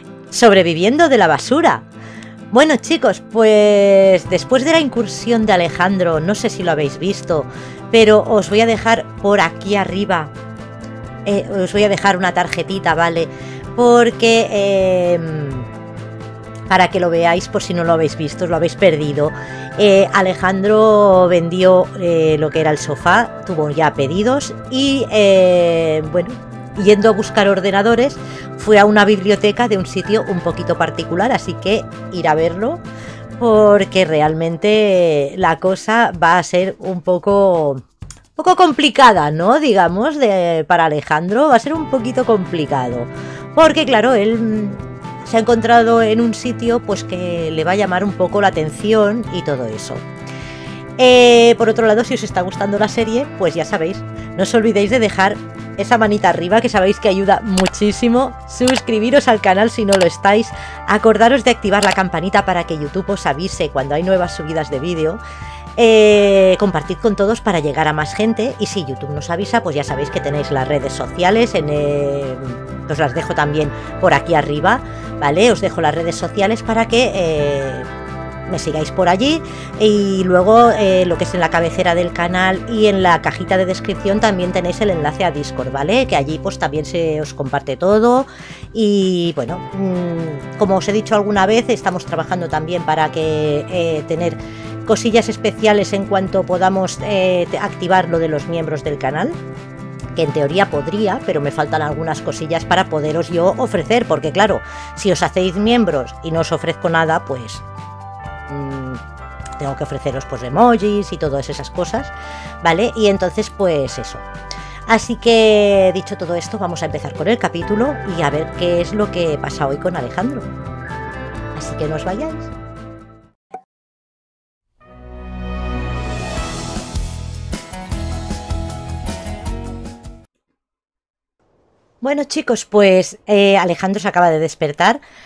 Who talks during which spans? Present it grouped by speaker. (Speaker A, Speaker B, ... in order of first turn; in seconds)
Speaker A: 0.3-1.9, 2.5-10.3, 11.2-15.7, 16.7-32.8, 33.4-37.8, 38.4-50.1, 51.0-65.2, 65.8-77.9, 78.5-99.4, 100.2-107.6, 108.5-109.0, 109.6-114.3, 114.9-120.5, 121.5-122.5, 132.0-135.0